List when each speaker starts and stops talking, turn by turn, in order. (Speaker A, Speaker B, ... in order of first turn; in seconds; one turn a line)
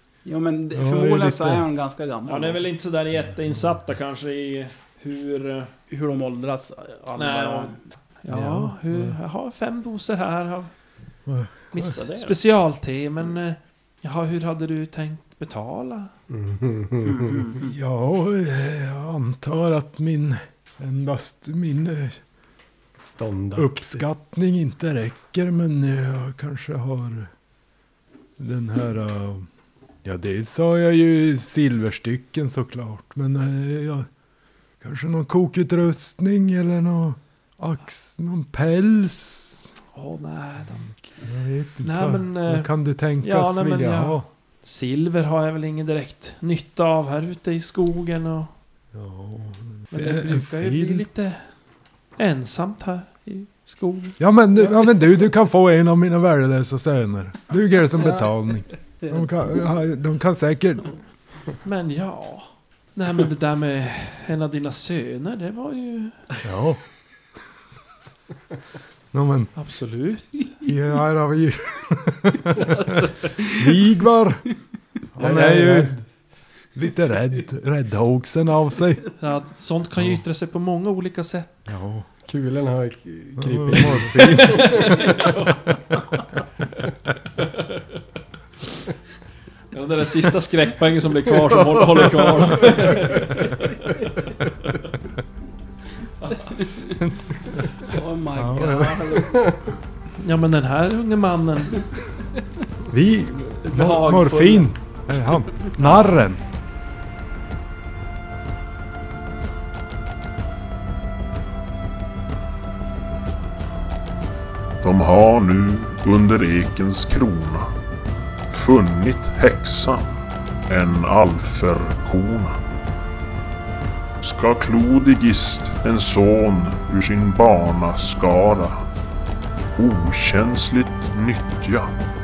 Speaker A: 0.2-2.6
Speaker B: 0.7-1.6
Speaker C: 2.3-5.7
Speaker A: 5.9-7.8
Speaker C: 7.1-10.7
Speaker B: 8.3-9.1
Speaker B: 11.2-11.9
Speaker A: 11.7-12.3
Speaker C: 11.7-16.1
Speaker D: 16.3-17.6
Speaker A: 17.0-17.7
Speaker B: 17.6-22.2
Speaker D: 23.1-24.0
Speaker B: 23.6-27.3
Speaker B: 28.4-29.5
Speaker B: 30.0-34.1
Speaker B: 34.8-39.7
Speaker C: 39.9-40.9
Speaker B: 41.2-44.2
Speaker C: 41.8-48.5
Speaker B: 48.9-51.0
Speaker C: 49.9-51.5
Speaker C: 52.2-54.2
Speaker B: 54.2-61.0
Speaker A: 59.0-59.3
Speaker C: 61.6-66.4
Speaker B: 66.4-66.8
Speaker B: 69.1-69.5
Speaker C: 69.5-70.6
Speaker B: 70.6-74.6
Speaker B: 75.1-76.0
Speaker D: 75.2-76.0
Speaker B: 76.7-79.0
Speaker C: 79.2-81.7
Speaker B: 81.7-82.1
Speaker D: 82.2-84.9
Speaker B: 83.4-85.2
Speaker C: 84.4-85.7
Speaker C: 89.7-94.1
Speaker B: 92.4-92.6
Speaker C: 96.2-96.7
Speaker A: 96.5-97.0
Speaker B: 97.0-97.7
Speaker A: 97.8-99.5
Speaker B: 98.4-99.3
Speaker C: 100.2-102.0
Speaker B: 102.9-106.4
Speaker C: 103.6-104.7
Speaker E: 114.8-117.7
Speaker E: 118.5-122.6
Speaker E: 124.2-128.8
Speaker E: 129.8-131.9